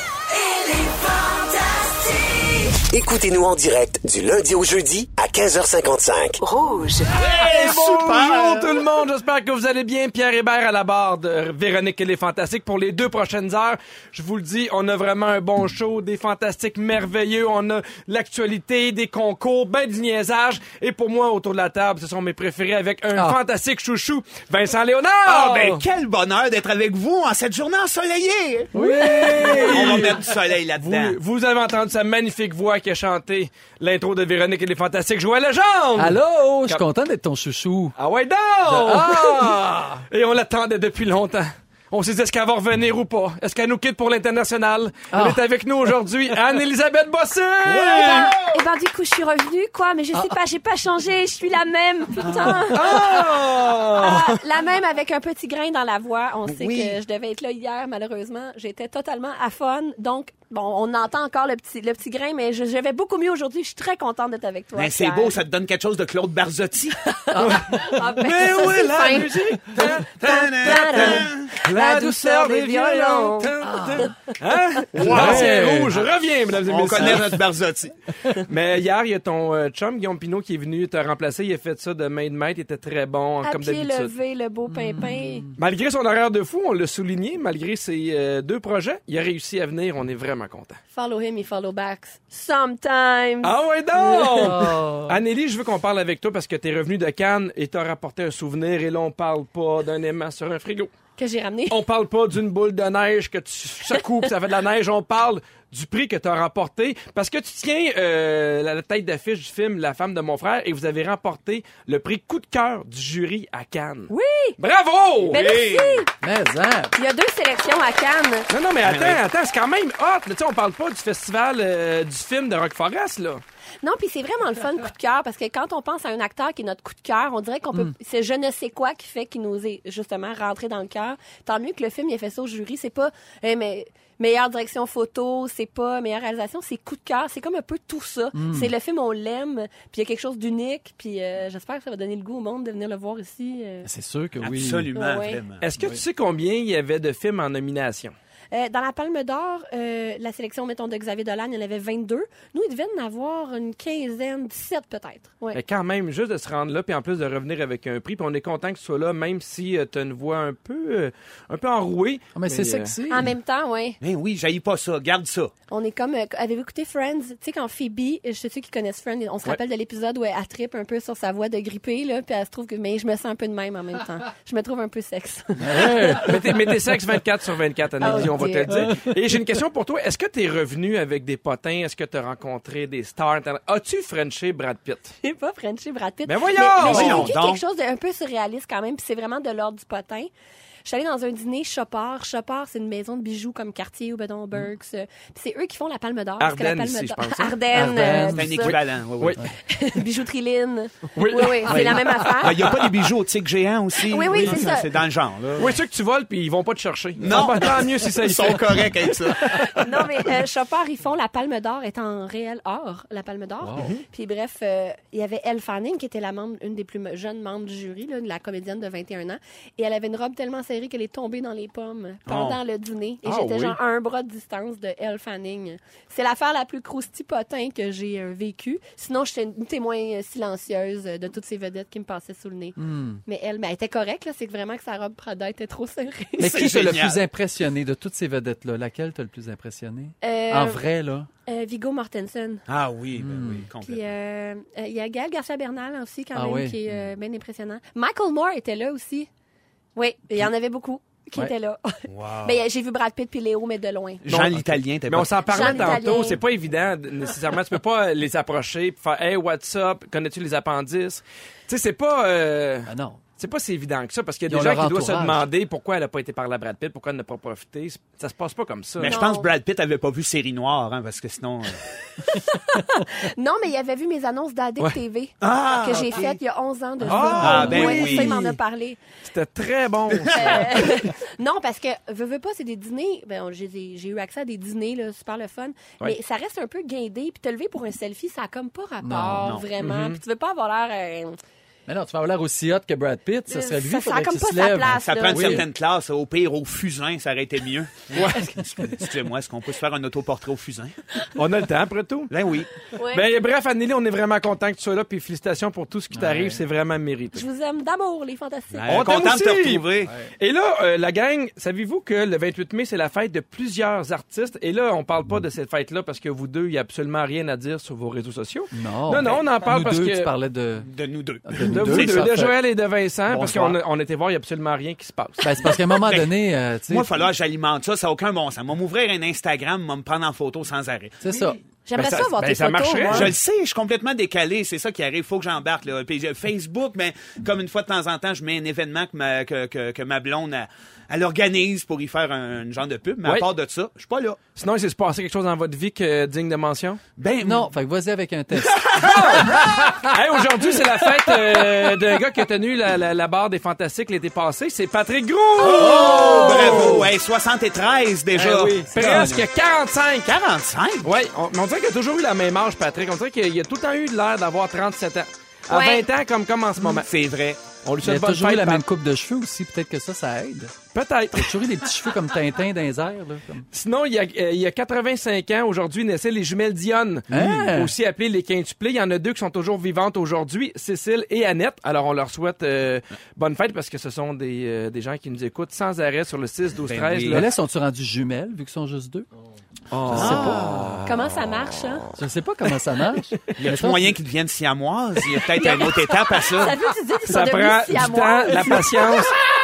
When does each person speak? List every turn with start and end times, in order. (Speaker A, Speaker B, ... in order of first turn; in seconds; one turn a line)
Speaker A: 0.3-7.0
Speaker B: 7.1-8.8
Speaker C: 7.2-25.8
Speaker B: 25.2-28.7
Speaker D: 28.7-30.1
Speaker C: 29.1-30.1
Speaker E: 29.2-29.6
Speaker B: 29.7-31.2
Speaker C: 30.8-36.8
Speaker D: 36.0-38.0
Speaker C: 38.0-48.3
Speaker D: 38.6-40.0
Speaker D: 45.1-45.4
Speaker B: 47.6-48.6
Speaker E: 48.0-52.8
Speaker B: 52.2-52.7
Speaker C: 52.7-54.3
Speaker E: 54.0-65.3
Speaker B: 56.5-57.0
Speaker B: 64.7-67.0
Speaker E: 67.0-74.1
Speaker D: 67.3-68.0
Speaker C: 67.4-70.1
Speaker B: 68.5-69.2
Speaker B: 69.8-71.5
Speaker C: 70.6-77.4
Speaker D: 71.7-72.1
Speaker D: 73.6-74.1
Speaker B: 74.9-75.7
Speaker D: 75.0-76.0
Speaker B: 76.7-77.9
Speaker C: 78.5-84.1
Speaker E: 83.4-85.5
Speaker D: 84.7-85.5
Speaker C: 85.6-90.8
Speaker E: 90.9-93.5
Speaker C: 93.4-100.9
Speaker E: 94.0-94.5
Speaker D: 94.3-95.2
Speaker E: 101.2-101.8
Speaker C: 101.7-115.4
Speaker E: 114.1-114.6
Speaker B: 115.2-116.0
Speaker E: 115.2-116.1
Speaker D: 116.2-116.9
Speaker E: 116.9-118.5
Speaker C: 118.5-123.4
Speaker B: 118.8-119.2
Speaker E: 123.8-143.9
Speaker D: 138.3-138.7
Speaker D: 143.8-144.9
Speaker B: 144.4-145.6
Speaker E: 144.9-145.4
Speaker C: 145.6-148.1
Speaker D: 145.8-146.0
Speaker E: 148.5-155.6
Speaker C: 155.5-162.9
Speaker D: 162.3-163.3
Speaker E: 163.1-164.0
Speaker B: 164.0-165.5
Speaker E: 165.7-176.3
Speaker D: 175.6-176.4
Speaker C: 176.2-185.1
Speaker E: 178.0-178.9
Speaker D: 178.0-179.0
Speaker E: 185.2-190.3
Speaker C: 186.2-187.3
Speaker B: 186.8-187.6
Speaker E: 190.8-198.7
Speaker C: 196.4-197.6
Speaker D: 197.7-198.8
Speaker B: 198.2-199.4
Speaker E: 199.7-202.6
Speaker C: 201.2-202.0
Speaker B: 201.7-205.7
Speaker E: 204.0-204.9
Speaker D: 204.3-204.8
Speaker C: 205.6-208.8
Speaker B: 207.2-209.7
Speaker E: 209.7-236.6
Speaker D: 213.6-214.0
Speaker C: 213.8-214.0
Speaker B: 222.3-222.6
Speaker C: 223.2-223.8
Speaker D: 232.8-233.2
Speaker D: 236.4-241.3
Speaker B: 236.4-237.2
Speaker E: 240.2-240.8
Speaker E: 241.4-242.6
Speaker B: 242.7-244.1
Speaker D: 243.2-243.7
Speaker E: 243.8-249.3
Speaker D: 246.3-246.8
Speaker E: 249.9-254.2
Speaker B: 252.1-252.6
Speaker B: 254.2-256.1
Speaker C: 254.3-269.2
Speaker E: 255.5-256.4
Speaker D: 262.9-263.2
Speaker D: 264.5-265.4
Speaker B: 269.0-271.8
Speaker E: 269.0-269.5
Speaker E: 272.7-279.0
Speaker B: 275.4-276.4
Speaker C: 277.1-278.4
Speaker D: 277.1-277.9
Speaker B: 277.4-278.6
Speaker C: 279.2-280.9
Speaker B: 280.2-280.5
Speaker E: 280.3-291.4
Speaker D: 289.0-289.6
Speaker C: 289.8-290.2
Speaker D: 291.9-295.6
Speaker E: 293.5-295.6
Speaker B: 294.8-301.0
Speaker C: 298.1-298.4
Speaker C: 301.3-302.3
Speaker B: 302.3-302.7
Speaker E: 302.9-303.2
Speaker C: 303.1-307.4
Speaker D: 306.1-306.6
Speaker E: 307.3-309.0
Speaker D: 308.7-309.0
Speaker B: 308.8-310.1
Speaker C: 308.9-309.9
Speaker C: 310.4-320.3
Speaker D: 318.7-320.9
Speaker B: 320.8-322.5
Speaker D: 321.4-322.5
Speaker C: 321.6-325.4
Speaker D: 323.3-323.7
Speaker B: 323.4-323.6
Speaker D: 325.4-327.1
Speaker B: 326.0-326.3
Speaker B: 326.9-331.5
Speaker D: 331.2-331.6
Speaker E: 331.9-333.3
Speaker C: 331.9-333.3
Speaker B: 333.1-344.4
Speaker C: 344.6-347.0
Speaker B: 347.2-347.7
Speaker D: 347.4-350.1
Speaker B: 348.6-349.5
Speaker C: 349.0-357.0
Speaker D: 350.9-352.2
Speaker B: 355.6-359.4
Speaker D: 355.6-357.1
Speaker C: 358.4-360.3
Speaker D: 358.4-359.4
Speaker B: 360.2-361.1
Speaker C: 361.0-367.1
Speaker E: 365.7-366.1
Speaker B: 366.9-367.6
Speaker C: 367.8-368.8
Speaker D: 368.0-370.7
Speaker C: 370.9-371.6
Speaker D: 371.3-373.6
Speaker C: 373.7-387.5
Speaker D: 377.3-377.9
Speaker B: 386.8-387.4
Speaker D: 387.3-389.2
Speaker C: 389.9-391.1
Speaker D: 389.9-391.0
Speaker B: 390.1-390.7
Speaker E: 391.0-392.1
Speaker D: 392.2-394.2
Speaker B: 393.6-396.7
Speaker E: 395.6-399.3
Speaker C: 397.3-399.4